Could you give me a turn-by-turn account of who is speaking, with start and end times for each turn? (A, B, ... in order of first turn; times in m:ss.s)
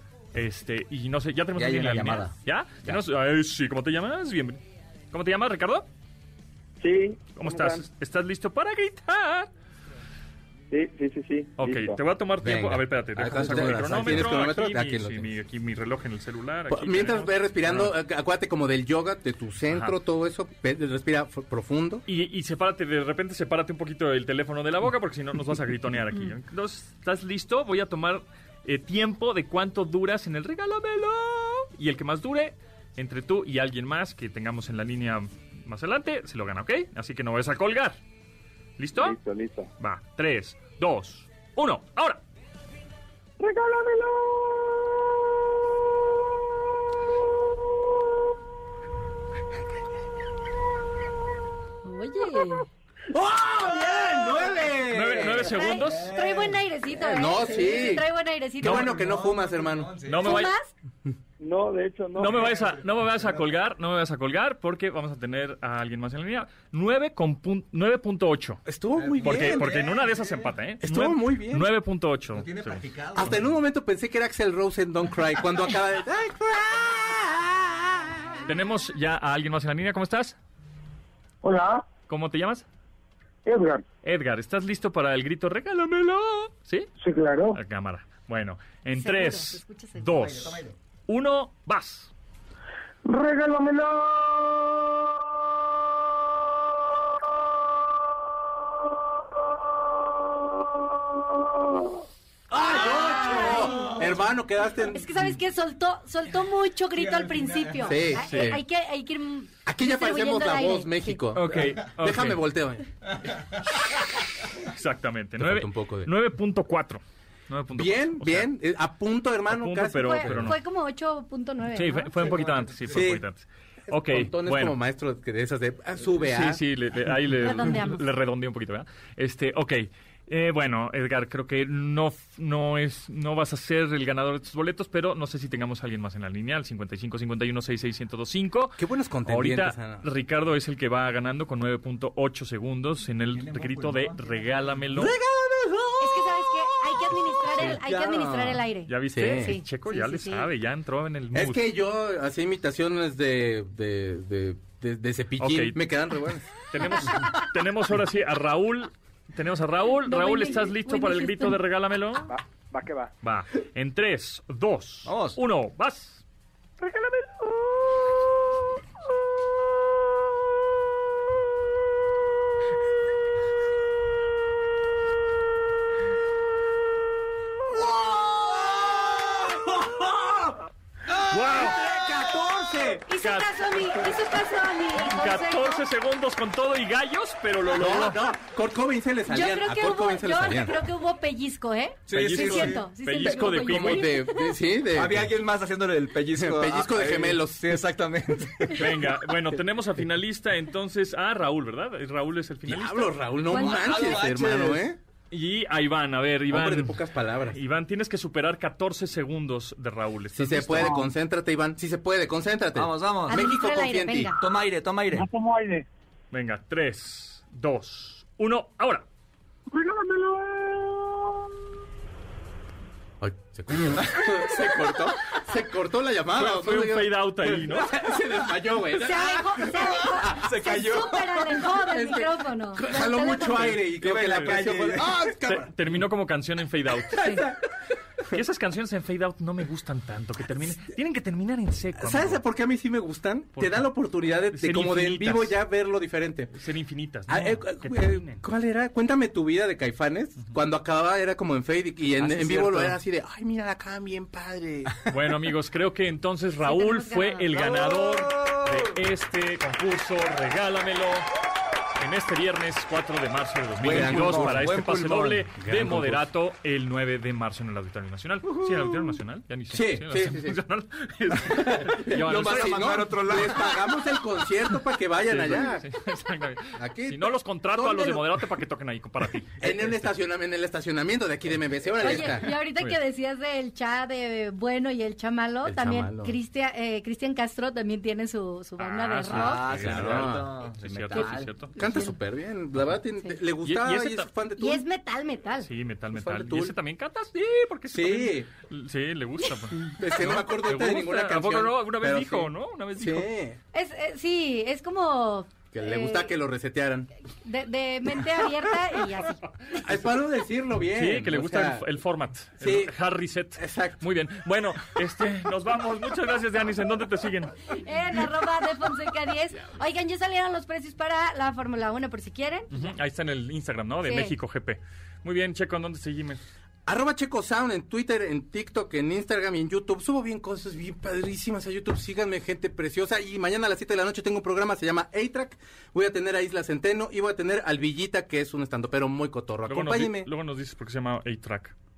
0:00.3-0:04.6 A
0:01.6-0:03.0 B
0:05.1-0:05.9 A
0:06.8-0:07.8 C
0:07.3-0:09.5 A
0:10.7-0:12.0 C
0:11.6-0:17.9 A
0:12.4-0:15.3 D
0:13.2-0:14.3 B
0:16.7-0:22.0 D
0:19.7-0:20.0 A
0:22.0-0:38.0 A
0:38.8-0:39.2 A
0:39.0-0:39.7 C
0:39.8-0:42.2 A
0:43.4-0:45.4 E
0:51.8-0:52.6 F
0:53.2-0:55.3 D
0:53.2-0:56.6 B
0:54.9-0:56.1 A
0:55.4-0:58.9 F
0:57.0-0:58.0 D
0:58.6-0:58.9 A
0:58.6-1:00.0 D
0:58.9-1:00.2 B
1:00.0-1:00.5 A
1:00.2-1:00.7 F
1:01.4-1:02.4 C
1:02.2-1:08.6 A
1:08.6-1:09.7 D
1:09.0-1:10.5 B
1:09.2-1:13.3 A
1:10.8-1:11.7 D
1:12.3-1:13.4 B
1:13.1-1:18.1 D
1:18.4-1:20.4 A
1:21.4-1:21.9 E
1:22.1-1:22.6 A
1:23.4-1:23.8 E
1:24.0-1:26.9 A
1:27.0-1:27.6 E
1:27.5-1:32.1 A
1:28.9-1:30.1 F
1:30.1-1:30.7 B
1:33.0-1:35.0 E
1:40.4-1:41.9 E
1:42.5-1:45.0 D
1:42.8-1:44.0 F
1:44.9-1:51.2 F
1:47.8-1:48.6 D
1:48.2-1:48.6 A
1:49.6-1:52.9 D
1:51.3-1:52.4 A
1:53.6-1:58.5 A
1:55.4-1:56.1 D
1:57.7-2:00.6 D
1:59.5-2:00.6 A
2:00.0-2:02.3 F
2:01.7-2:04.8 A
2:02.2-2:02.9 B
2:02.9-2:03.2 D
2:03.9-2:06.6 D
2:06.2-2:25.1 A
2:07.4-2:08.0 F
2:18.8-2:20.0 D
2:23.3-2:24.8 B
2:24.9-2:29.6 D
2:26.0-2:30.5 F
2:28.8-2:31.6 A
2:31.3-2:37.3 D
2:35.4-2:35.8 A
2:36.7-2:42.3 A
2:40.0-2:41.6 F
2:42.7-2:43.1 C
2:43.2-2:46.2 A
2:45.0-2:45.4 B
2:46.8-2:47.9 E
2:58.2-2:59.6 B
2:59.7-3:00.2 D
3:01.3-3:01.8 A
3:01.5-3:03.0 D
3:01.5-3:03.0 B
3:03.0-3:05.8 F
3:03.2-3:04.1 A
3:05.0-3:08.2 A
3:07.7-3:10.8 D
3:09.3-3:14.6 F
3:12.1-3:12.8 B
3:12.1-3:14.1 A
3:13.5-3:15.4 D
3:14.9-3:19.1 B
3:16.3-3:18.7 D
3:18.8-3:23.1 A
3:22.7-3:25.0 D
3:23.5-3:24.2 F
3:23.5-3:24.9 B
3:25.3-3:27.0 A
3:26.5-3:27.6 D
3:27.5-3:31.0 A
3:30.4-3:34.3 D
3:30.8-3:31.0 E
3:32.7-3:33.5 B
3:33.3-3:34.4 F
3:34.3-3:35.3 B
3:35.1-3:35.9 E
3:36.3-3:39.0 A
3:39.7-3:41.6 E
3:43.2-3:55.9 D
3:46.4-3:47.9 A
3:48.9-3:53.9 F
3:50.3-3:51.3 B
3:53.9-3:55.2 B
3:54.2-3:54.6 A
3:55.4-3:57.3 A
3:57.2-3:57.6 D
3:58.3-4:02.4 A
4:02.0-4:06.5 D
4:03.6-4:03.9 A
4:04.5-4:05.5 A
4:06.5-4:08.4 A
4:07.3-4:15.1 D
4:12.2-4:13.0 B
4:15.1-4:21.3 A
4:16.6-4:17.7 F
4:17.6-4:18.9 B
4:21.9-4:33.1 A
4:23.8-4:25.5 B
4:23.8-4:24.7 D
4:25.6-4:26.2 D
4:29.7-4:30.6 D
4:31.3-4:35.9 D
4:32.2-4:34.0 B
4:35.3-4:39.9 A
4:36.8-4:38.4 D
4:39.6-4:42.5 D
4:42.0-4:49.8 F
4:45.6-4:46.3 D
4:48.8-4:51.7 A
4:49.3-4:51.6 B
4:49.7-4:50.5 D
4:51.1-4:52.2 F
4:51.7-4:54.8 D
4:53.6-4:54.3 A
4:54.6-4:55.7 F
4:55.6-5:03.3 A
4:56.1-4:56.7 D
4:57.9-4:58.5 D
4:59.9-5:03.6 D
5:03.7-5:06.4 F
5:05.7-5:07.1 D
5:07.4-5:09.4 F
5:09.7-5:11.9 D
5:10.9-5:17.6 A
5:12.6-5:12.9 D
5:13.6-5:14.0 D
5:17.7-5:22.9 F
5:22.7-5:26.4 A
5:24.0-5:24.3 F
5:26.9-5:40.3 D
5:39.7-5:41.7 A